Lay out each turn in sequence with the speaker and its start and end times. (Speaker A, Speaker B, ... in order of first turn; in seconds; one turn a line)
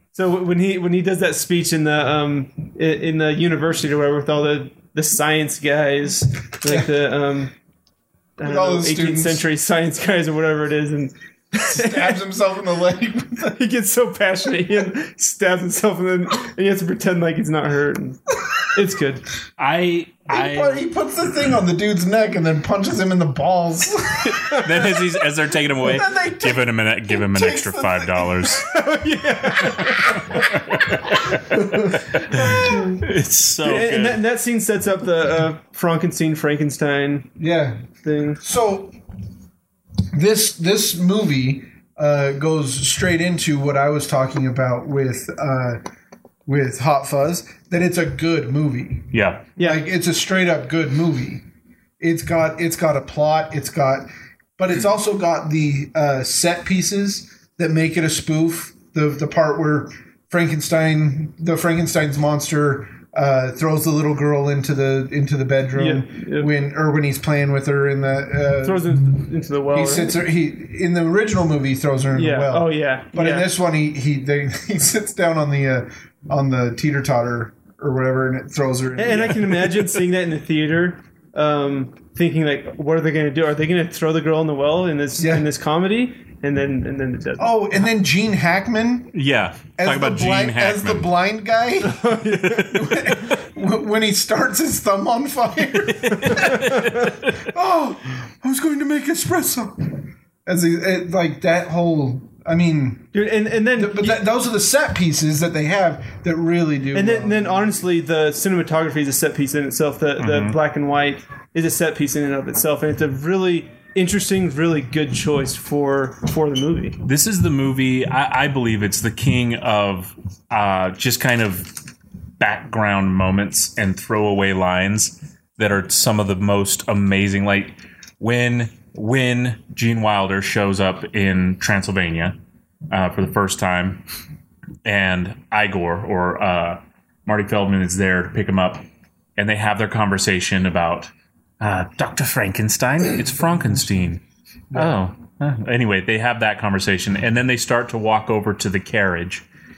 Speaker A: 0.1-7.5
Speaker B: 6.7-6.9
Speaker A: 8.4-12.2
Speaker B: 8.4-9.5
Speaker B: 11.7-13.6
Speaker A: 13.5-18.2
Speaker A: 18.7-19.2
Speaker C: 19.6-20.9
Speaker B: 20.3-24.9
Speaker C: 24.6-28.7
Speaker B: 25.8-28.5
Speaker A: 28.6-30.4
Speaker C: 30.3-31.6
Speaker B: 31.5-33.0
Speaker C: 32.1-34.2
Speaker A: 32.3-33.0
Speaker A: 33.6-37.3
Speaker B: 37.4-38.9
Speaker A: 38.0-38.4
Speaker B: 40.1-45.8
Speaker B: 46.5-51.4
Speaker C: 49.1-49.5
Speaker A: 49.6-49.9
Speaker B: 52.0-79.9
Speaker A: 65.8-66.5
Speaker A: 68.6-70.2
Speaker A: 72.1-73.5
Speaker A: 79.0-87.5
Speaker B: 85.2-85.5
Speaker B: 87.4-89.1
Speaker C: 89.1-91.1
Speaker B: 89.8-103.2
Speaker A: 91.8-92.9
Speaker C: 96.0-97.3
Speaker A: 96.3-97.0
Speaker A: 103.1-104.2
Speaker B: 103.7-107.8
Speaker A: 106.9-117.0
Speaker C: 110.2-110.6
Speaker C: 117.0-121.8
Speaker C: 122.4-132.4
Speaker C: 132.9-134.0
Speaker C: 134.8-138.8
Speaker C: 139.4-144.2
Speaker C: 144.7-149.4